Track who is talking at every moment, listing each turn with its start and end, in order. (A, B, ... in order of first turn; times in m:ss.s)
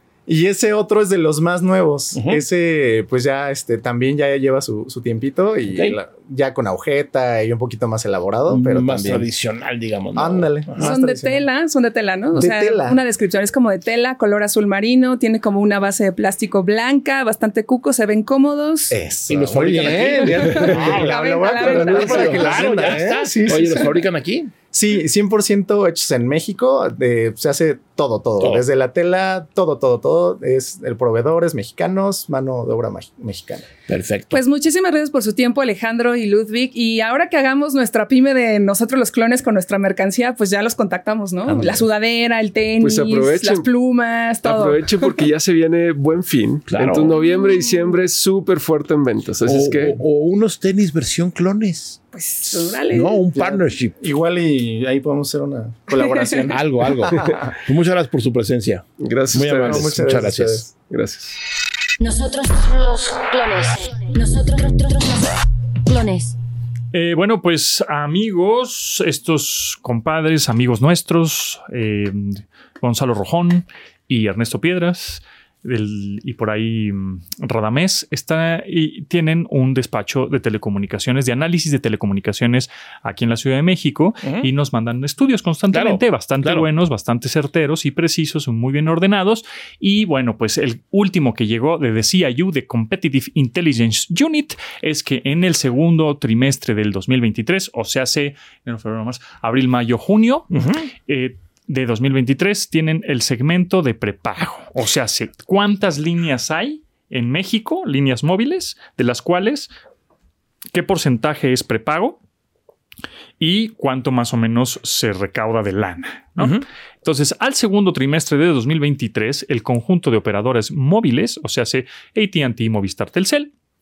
0:00.3-0:09.3 A
0:02.1-0:02.4 B
0:05.7-0:06.0 B
0:08.5-0:10.9 B
0:10.1-0:11.5 A
0:10.8-0:19.0 C
0:12.3-0:13.0 A
0:18.9-0:24.0 A
0:19.3-0:24.5 B
0:20.3-0:22.5 C
0:24.7-0:33.7 A
0:28.4-0:28.6 B
0:33.9-0:34.4 B
0:34.3-0:45.2 C
0:41.5-0:41.8 B
0:42.8-0:43.7 D
0:44.4-0:50.0 D
0:46.7-0:47.2 B
0:49.4-0:53.9 B
0:52.1-0:53.2 C
0:53.3-0:57.3 A
0:56.0-0:56.4 C
0:56.5-1:00.6 B
0:59.0-0:59.9 D
0:59.6-1:00.7 A
1:00.9-1:01.4 D
1:02.0-1:06.4 E
1:06.9-1:40.5 F
1:24.2-1:24.5 B
1:25.7-1:26.7 B
1:40.5-1:40.9 B
1:41.0-1:49.7 F
1:50.7-1:52.2 F
1:53.4-2:03.5 F
1:56.4-1:56.6 B